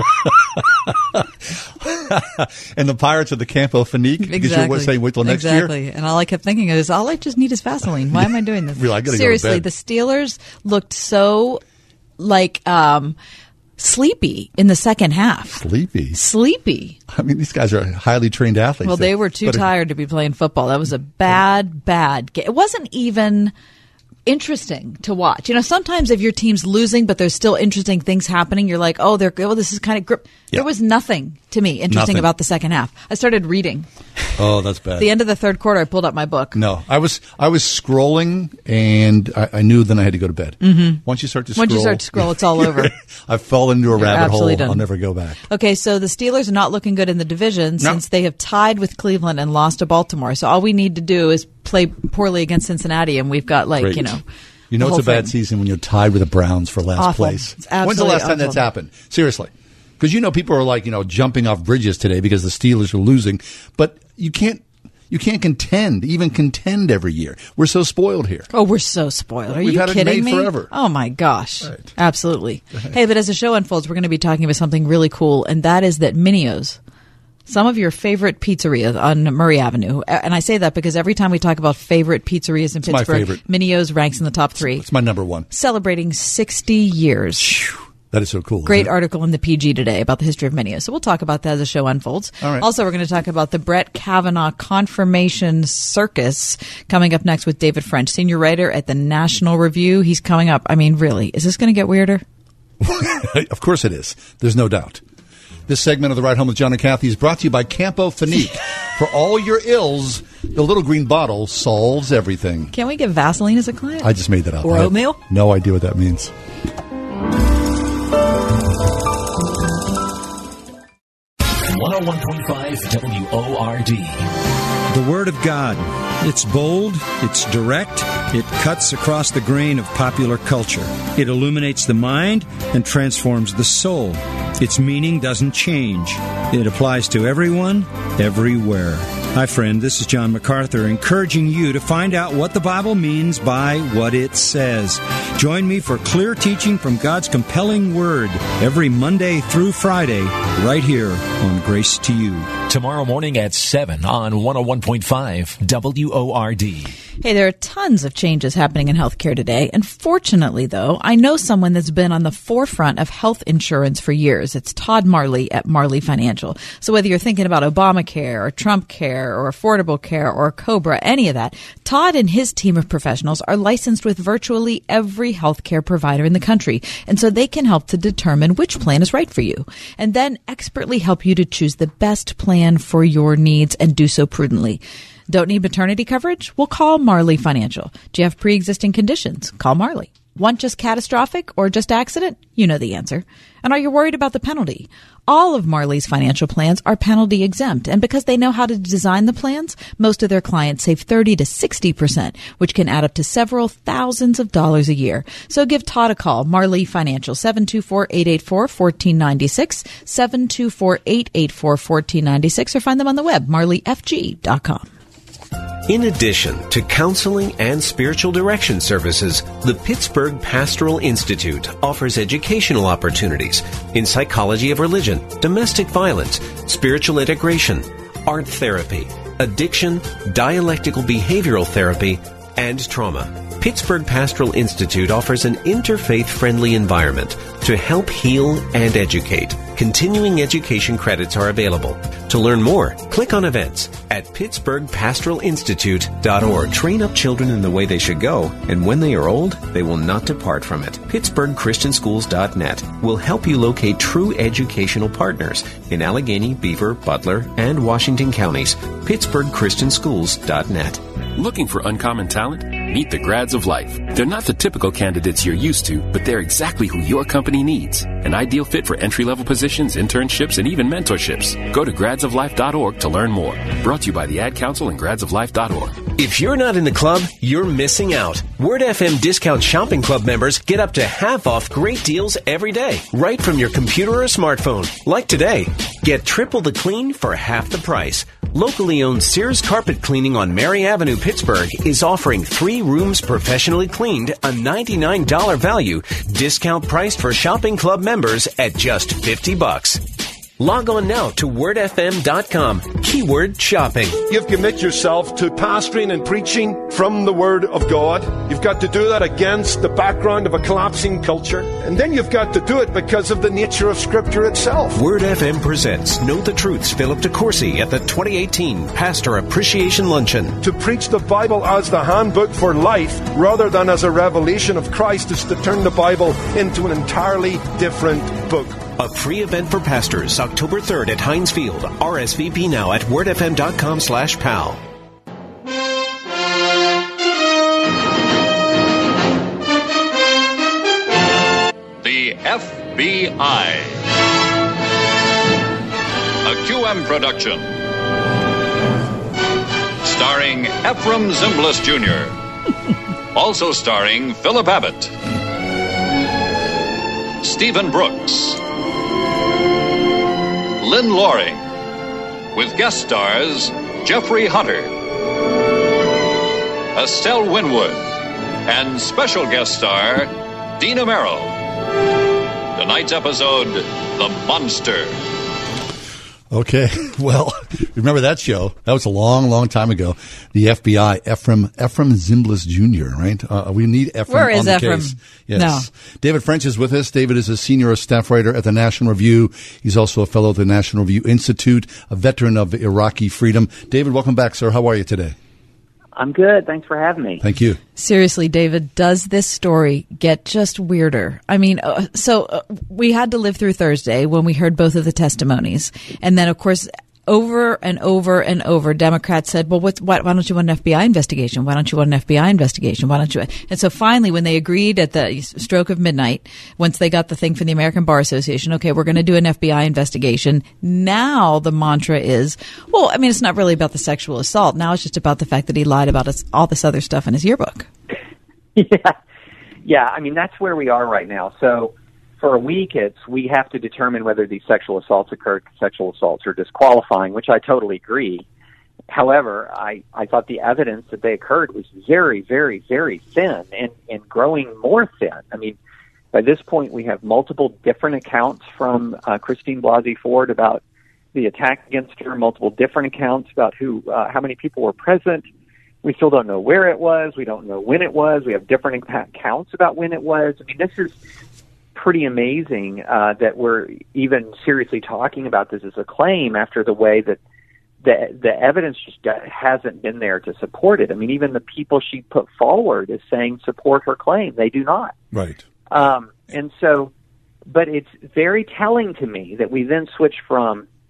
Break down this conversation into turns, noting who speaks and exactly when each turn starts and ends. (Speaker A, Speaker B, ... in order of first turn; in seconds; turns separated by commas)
Speaker A: 0.9-5.7, Speaker B: 4.3-11.6, Speaker A: 8.1-9.7, Speaker B: 12.2-13.2, Speaker B: 13.8-15.6, Speaker A: 15.6-16.2, Speaker B: 16.1-17.0, Speaker A: 17.1-19.7, Speaker B: 18.9-23.5, Speaker B: 24.3-33.9, Speaker A: 31.9-32.3, Speaker A: 34.4-35.1, Speaker B: 35.0-36.6, Speaker A: 36.5-45.4, Speaker B: 40.6-41.0, Speaker B: 41.6-42.9, Speaker B: 44.0-44.8, Speaker B: 45.5-54.2, Speaker A: 53.8-54.2, Speaker A: 54.7-68.5, Speaker B: 54.8-55.3, Speaker B: 57.0-58.6, Speaker B: 68.5-76.8, Speaker A: 69.5-70.7, Speaker B: 77.5-84.8, Speaker A: 82.8-83.4, Speaker A: 84.6-85.5, Speaker B: 85.5-87.6, Speaker A: 87.4-88.9, Speaker B: 88.7-102.2, Speaker A: 92.4-92.7, Speaker A: 102.8-105.0, Speaker A: 105.7-112.7, Speaker B: 112.7-114.1, Speaker A: 114.0-116.3, Speaker B: 114.6-115.2, Speaker C: 121.7-123.7, Speaker D: 124.9-152.6, Speaker E: 152.9-154.6, Speaker B: 157.2-214.9, Speaker F: 215.9-261.0, Speaker E: 261.4-276.0, Speaker F: 276.2-300.0, Speaker F: 300.6-304.2, Speaker G: 304.3-315.0, Speaker F: 314.9-320.6, Speaker G: 320.6-328.9, Speaker F: 329.0-334.8, Speaker H: 342.0-343.9, Speaker H: 346.4-347.7, Speaker H: 350.0-352.3, Speaker H: 353.3-355.1, Speaker H: 357.4-358.6, Speaker H: 360.8-361.6, Speaker H: 362.5-364.9, Speaker H: 366.9-368.0, Speaker H: 368.7-371.5, Speaker H: 372.8-375.2, Speaker A: 376.5-395.4, Speaker B: 384.3-385.9, Speaker I: 396.1-397.4, Speaker A: 397.4-397.8, Speaker B: 398.0-427.9, Speaker I: 428.8-429.1, Speaker I: 429.9-438.4, Speaker I: 439.1-445.8, Speaker I: 446.3-450.8, Speaker I: 451.3-455.5, Speaker I: 456.0-461.1, Speaker I: 461.9-467.4, Speaker I: 468.0-475.1, Speaker A: 475.3-475.6, Speaker I: 475.9-477.1, Speaker I: 477.7-480.9